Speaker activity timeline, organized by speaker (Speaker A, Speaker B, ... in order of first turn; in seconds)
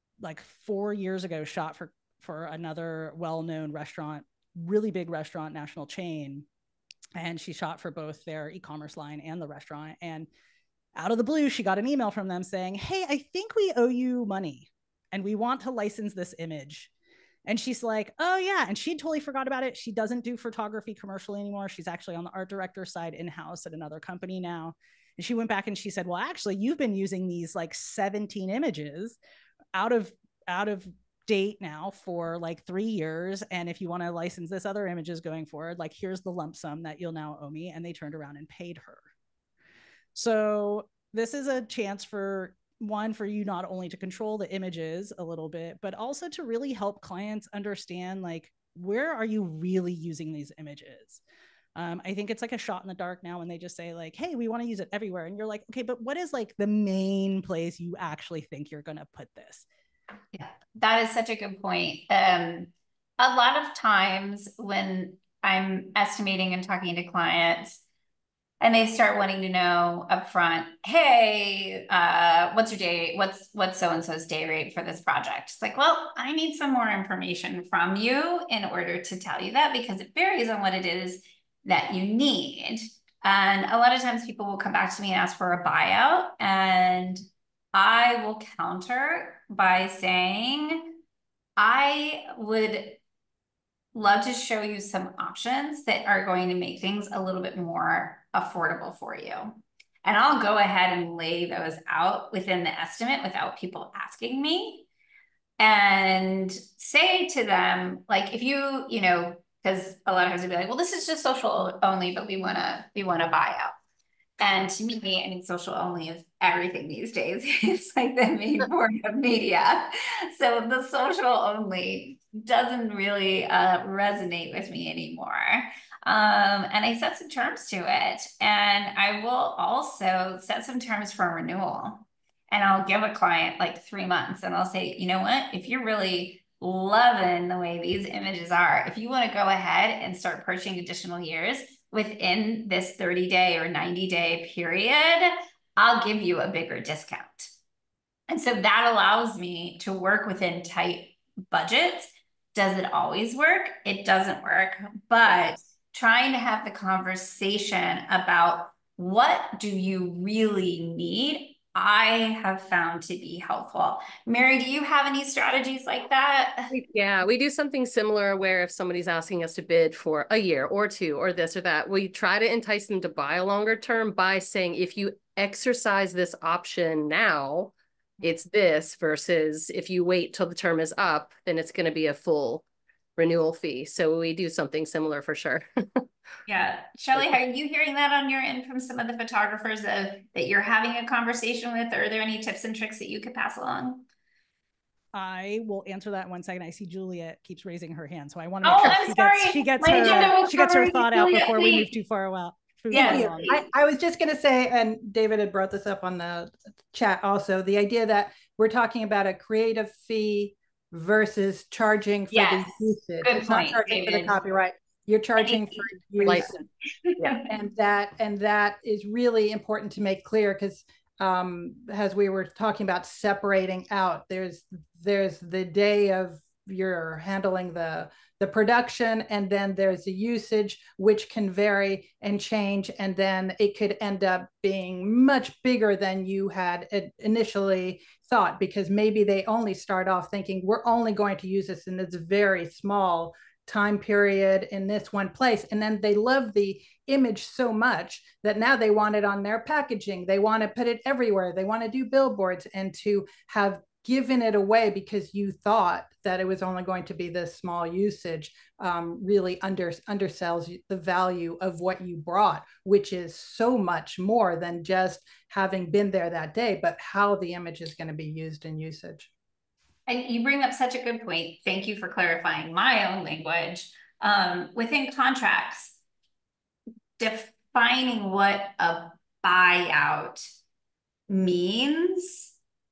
Speaker A: 0.2-6.5, 7.2-10.3, 10.9-16.9, 17.5-29.2, 29.8-39.0, 40.1-51.2, 51.8-59.6, 195.1-203.6
Speaker B: 60.3-67.8, 68.6-87.2, 87.7-90.9, 91.6-93.0, 94.0-104.9, 105.6-113.8, 114.4-147.5, 148.3-166.7, 186.5-194.1, 198.6-201.9, 202.9-203.6, 212.3-214.4, 215.4-217.4, 270.1-276.0, 277.2-280.5, 281.3-282.5
Speaker C: 166.7-182.7, 183.2-186.0, 217.2-217.5
Speaker D: 202.9-216.7, 217.5-269.3